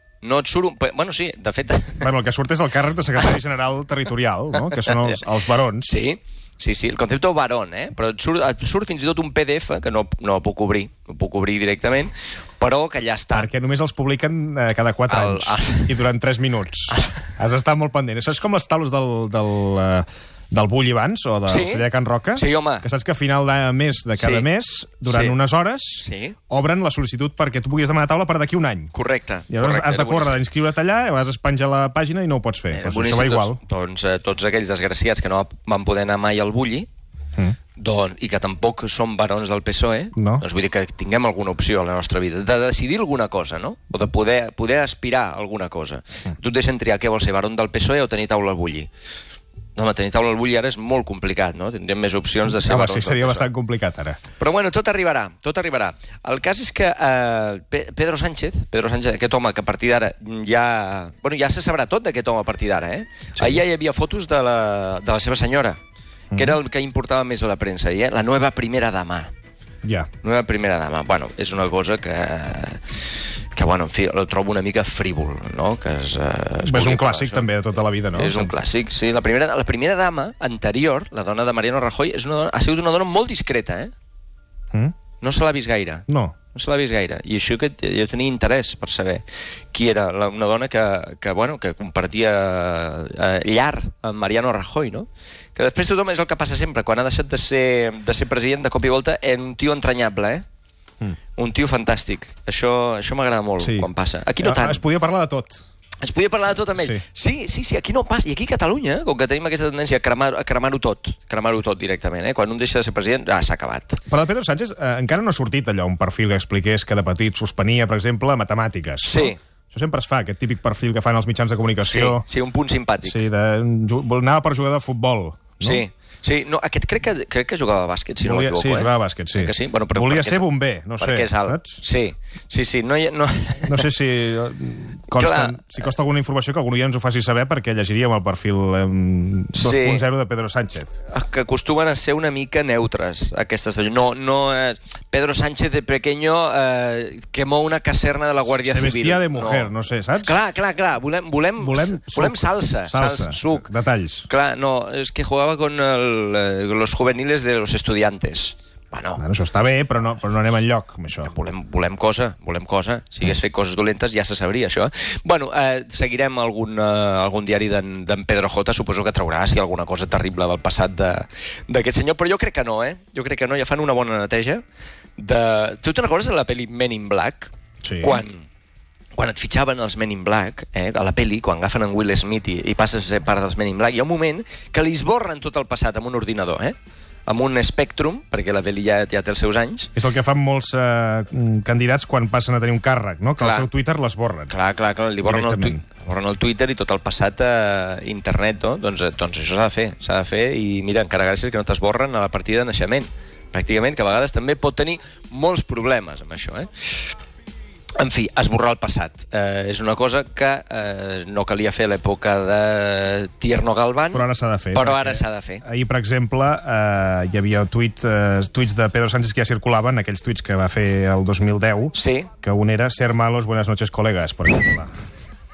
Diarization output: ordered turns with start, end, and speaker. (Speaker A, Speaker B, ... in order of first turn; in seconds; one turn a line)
Speaker A: 0.2-2.1
Speaker B: 2.0-5.9
Speaker A: 4.7-5.2
Speaker A: 5.8-13.5
Speaker B: 13.3-28.9
Speaker A: 15.1-16.0
Speaker A: 16.9-17.2
Speaker A: 21.5-22.9
Speaker A: 24.2-24.5
Speaker A: 25.1-25.4
Speaker A: 26.0-26.4
Speaker A: 28.9-30.4
Speaker B: 29.5-33.6
Speaker A: 32.7-36.9
Speaker A: 37.8-48.9
Speaker B: 40.1-40.4
Speaker A: 49.8-53.5
Speaker B: 52.5-54.2
Speaker A: 54.4-65.8
Speaker B: 66.3-66.6
Speaker A: 66.3-69.3
Speaker B: 69.8-70.1
Speaker A: 70.2-83.9
Speaker B: 76.7-78.5
Speaker A: 85.2-100.4
Speaker B: 86.1-86.3
Speaker A: 101.3-104.8
Speaker B: 103.6-103.9
Speaker B: 104.4-105.6
Speaker A: 106.0-114.0
Speaker B: 106.7-107.0
Speaker B: 114.1-122.2
Speaker A: 119.0-119.4
Speaker A: 121.9-123.2
Speaker B: 123.0-125.8
Speaker A: 125.6-133.9
Speaker B: 128.2-131.8
Speaker B: 133.7-140.9
Speaker A: 135.1-135.9
Speaker A: 139.5-140.0
Speaker A: 141.1-149.7
Speaker B: 148.7-150.3
Speaker A: 150.2-153.7
Speaker B: 151.6-154.3
Speaker A: 154.3-159.2
Speaker B: 159.2-161.3
Speaker A: 161.2-174.6
Speaker A: 175.2-178.4
Speaker B: 177.8-178.2
Speaker A: 179.2-186.7
Speaker A: 187.2-189.9
Speaker B: 189.9-194.5
Speaker A: 193.4-193.7
Speaker A: 194.5-206.9
Speaker B: 195.2-195.8
Speaker A: 208.0-215.6
Speaker B: 214.1-224.9
Speaker A: 221.9-222.3